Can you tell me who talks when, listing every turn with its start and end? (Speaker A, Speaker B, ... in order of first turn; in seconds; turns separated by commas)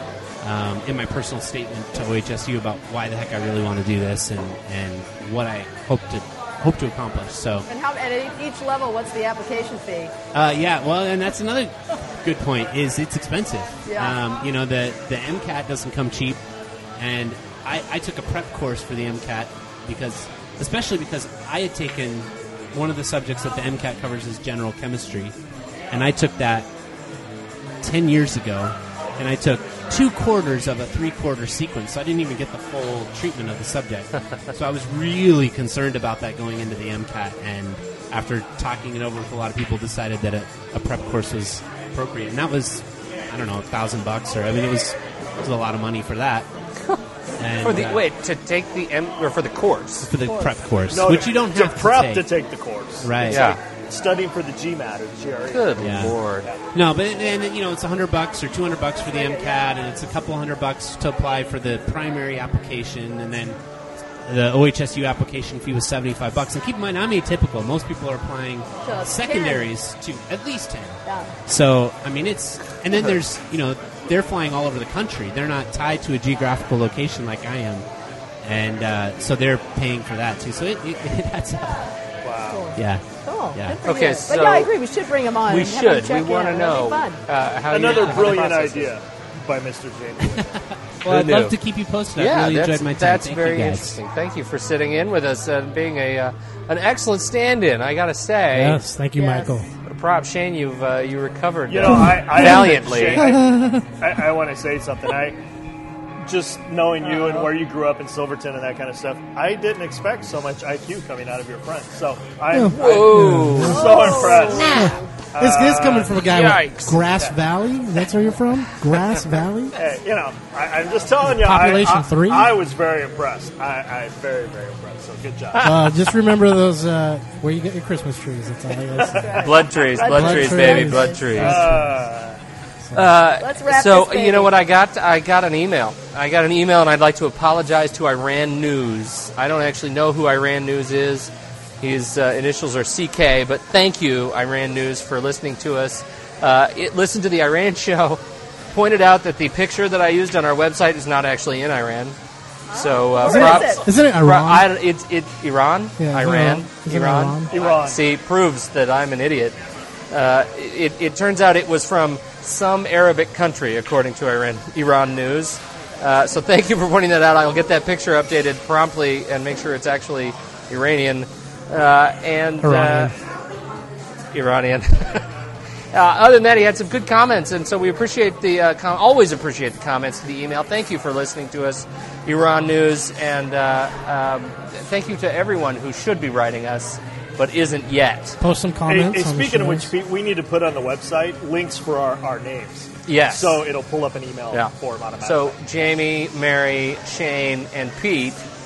Speaker A: 0.4-7.7, Speaker B: 7.7-10.1, Speaker A: 10.3-16.4, Speaker B: 13.8-14.2, Speaker A: 17.0-25.3, Speaker A: 25.9-26.7, Speaker A: 27.8-46.5, Speaker A: 47.4-48.0, Speaker C: 47.6-50.1, Speaker A: 50.0-52.3, Speaker B: 50.2-50.5, Speaker D: 50.9-55.8, Speaker A: 53.0-53.6, Speaker C: 53.3-53.6, Speaker C: 55.5-56.5, Speaker A: 55.8-56.2, Speaker D: 56.4-56.7, Speaker A: 56.7-63.6, Speaker B: 59.0-59.7, Speaker A: 64.2-77.8, Speaker B: 68.8-69.7, Speaker B: 71.0-71.3, Speaker A: 78.4-81.8, Speaker D: 82.2-82.7, Speaker B: 82.5-87.2, Speaker A: 82.7-83.0, Speaker C: 83.8-84.7, Speaker C: 85.5-88.9, Speaker D: 87.7-90.6, Speaker A: 87.8-88.3, Speaker A: 90.3-94.0, Speaker C: 91.0-91.5, Speaker C: 92.2-98.8, Speaker E: 98.5-99.7, Speaker B: 99.2-99.6, Speaker C: 99.8-103.3, Speaker D: 101.7-105.4, Speaker E: 101.9-103.8, Speaker D: 106.2-116.2, Speaker B: 107.0-107.5, Speaker E: 112.5-119.8, Speaker C: 112.7-115.0, Speaker B: 113.7-115.1, Speaker C: 116.2-117.0, Speaker D: 119.8-125.8, Speaker E: 121.2-122.5, Speaker E: 125.6-129.5, Speaker D: 129.0-130.2, Speaker B: 129.1-131.2, Speaker C: 129.4-131.7, Speaker E: 130.0-131.9, Speaker D: 131.3-132.4, Speaker C: 132.9-148.2, Speaker B: 133.4-134.5, Speaker C: 148.7-152.2, Speaker B: 152.7-153.9, Speaker C: 152.7-159.6, Speaker E: 153.2-154.7, Speaker E: 156.0-157.5, Speaker D: 157.5-158.0, Speaker C: 160.1-173.1, Speaker E: 172.6-173.1, Speaker C: 174.3-175.3, Speaker C: 175.9-188.4, Speaker E: 188.4-189.9, Speaker D: 188.9-195.5, Speaker C: 193.1-193.6, Speaker C: 194.5-198.4